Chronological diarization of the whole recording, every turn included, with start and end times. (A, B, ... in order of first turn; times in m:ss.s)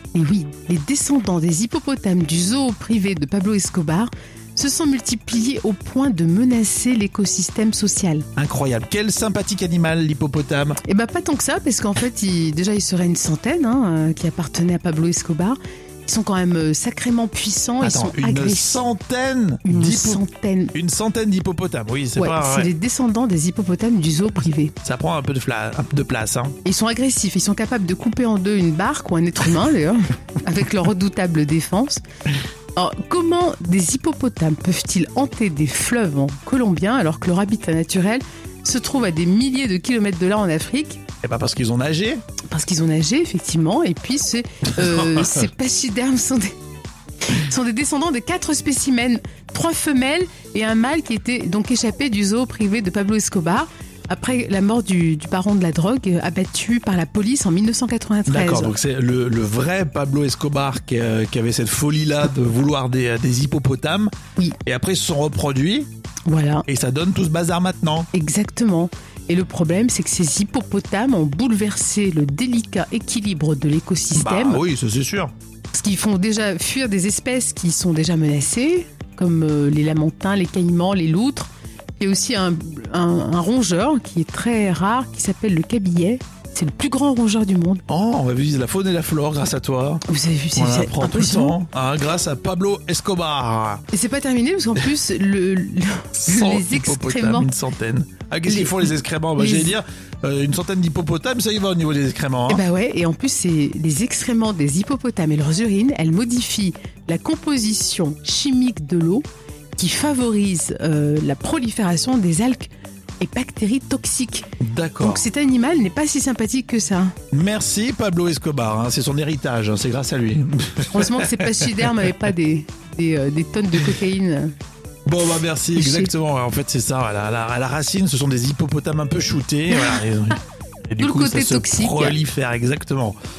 0:00.1-0:08.2 A
0:08.4-0:10.8 B
0:10.8-0:18.8 A
0:17.8-0:20.2 B
0:19.6-0:20.7 A
0:20.7-0:22.7 B
0:22.2-0:24.7 A
0:24.8-0:26.6 B
0:26.6-0:32.0 A
0:32.8-0:41.0 A
0:41.2-0:42.2 B
0:42.5-0:46.5 A
0:47.3-0:58.7 A
0:58.2-1:04.1 B
1:04.6-1:05.9 B
1:06.3-1:06.6 A
1:06.6-1:08.1 B
1:08.1-1:14.6 A
1:14.1-1:15.3 B
1:15.7-1:27.8 A
1:27.9-1:30.0 B
1:30.1-1:31.6 A
1:30.6-1:33.8 B
1:33.9-1:37.5 A
1:36.2-1:42.6 B
1:38.5-1:39.8 A
1:42.5-1:49.2 A
1:49.8-1:54.5 A
1:54.6-1:55.2 B
1:55.0-1:57.1 A
1:57.3-2:02.1 B
2:00.9-2:04.5 A
2:05.0-2:13.2 B
2:05.7-2:06.1 A
2:09.7-2:10.0 A
2:11.0-2:12.2 A